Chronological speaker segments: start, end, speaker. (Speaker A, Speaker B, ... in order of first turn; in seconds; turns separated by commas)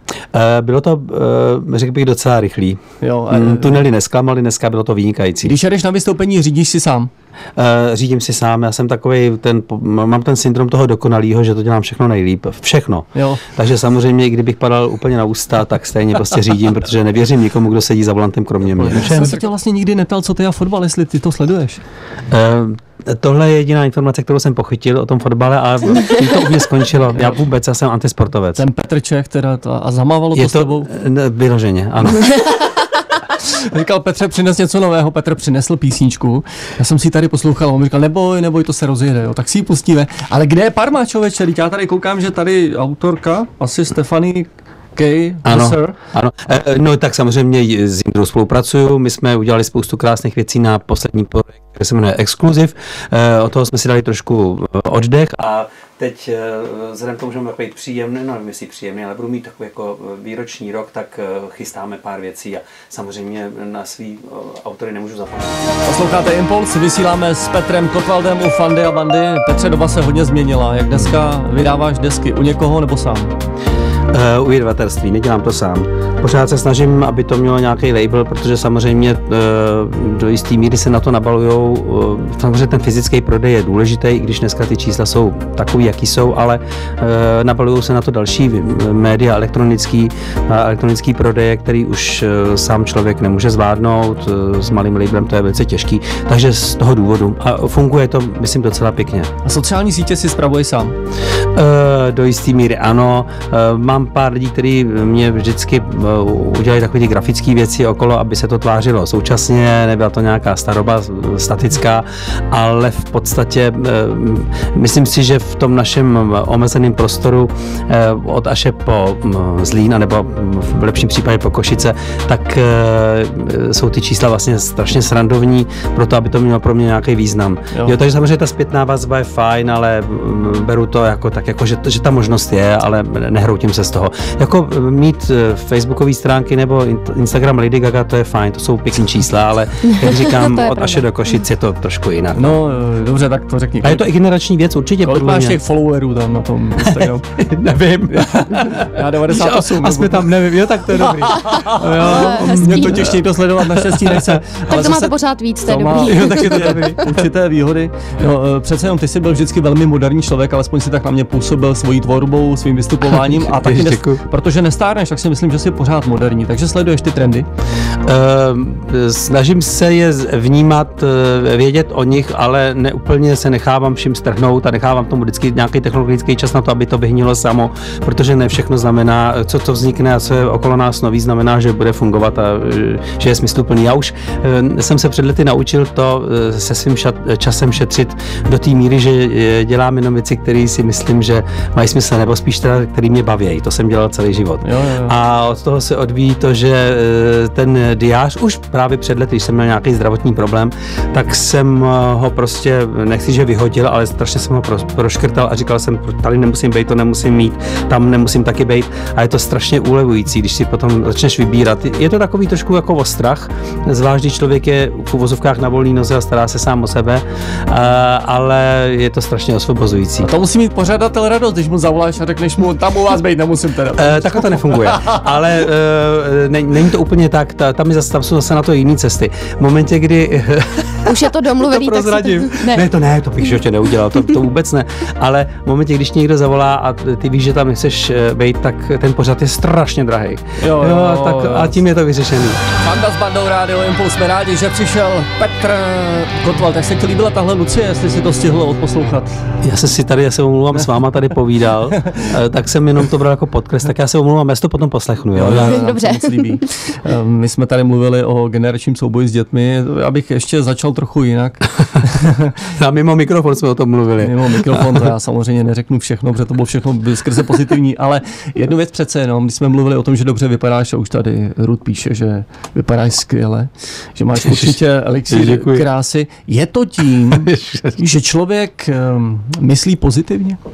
Speaker A: 0.3-5.6, Speaker B: 3.0-3.8, Speaker B: 5.4-7.1, Speaker A: 7.6-19.4, Speaker B: 13.2-13.5, Speaker B: 18.8-21.8, Speaker A: 22.3-28.6, Speaker B: 28.5-30.9, Speaker A: 30.4-32.6, Speaker B: 33.2-46.0, Speaker A: 45.5-65.6, Speaker B: 65.8-73.3, Speaker A: 70.9-71.2, Speaker A: 74.1-99.3, Speaker B: 99.4-101.0, Speaker A: 101.5-142.6, Speaker C: 139.9-141.1, Speaker B: 142.3-144.1, Speaker A: 143.8-145.6, Speaker B: 145.0-147.3, Speaker A: 146.8-155.1, Speaker B: 148.1-150.4, Speaker B: 151.1-155.1, Speaker C: 151.5-153.1, Speaker C: 154.7-157.1, Speaker B: 155.7-167.5, Speaker A: 156.1-157.1, Speaker A: 163.1-164.2, Speaker A: 168.1-220.3, Speaker B: 194.6-195.2, Speaker B: 220.2-225.4, Speaker A: 224.0-242.6, Speaker C: 231.1-232.9, Speaker B: 240.6-241.8, Speaker B: 242.7-249.4, Speaker A: 249.6-255.8, Speaker B: 255.3-262.7, Speaker C: 255.5-256.7, Speaker A: 262.7-265.1, Speaker B: 264.2-280.6, Speaker A: 274.4-274.8, Speaker A: 275.3-275.9, Speaker A: 277.3-278.0